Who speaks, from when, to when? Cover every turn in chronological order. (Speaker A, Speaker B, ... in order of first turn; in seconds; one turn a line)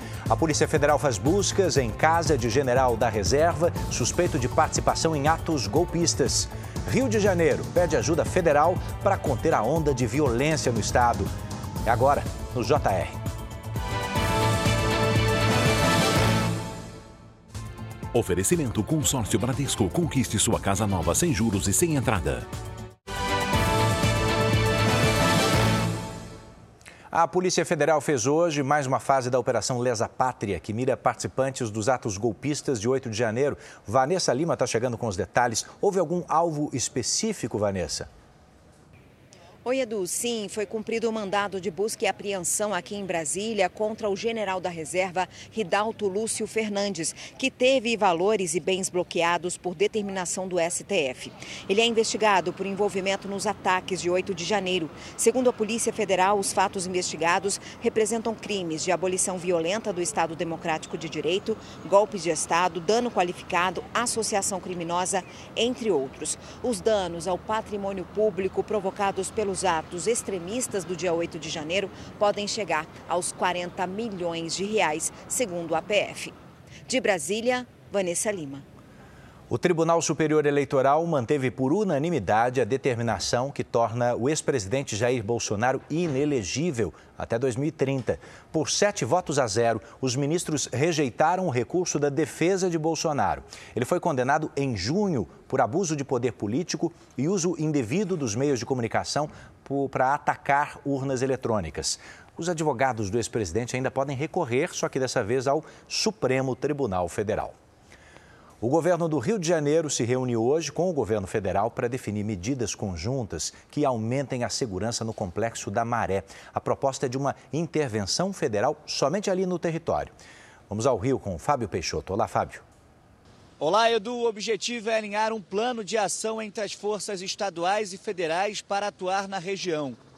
Speaker A: 0.3-11.3
Speaker A: 11.8-13.2
Speaker B: 18.1-22.5
Speaker A: 27.1-38.1
Speaker C: 39.6-76.3
Speaker C: 76.9-78.6
Speaker A: 79.5-107.5
Speaker A: 108.6-120.1
Speaker A: 120.7-122.6
Speaker D: 123.6-130.0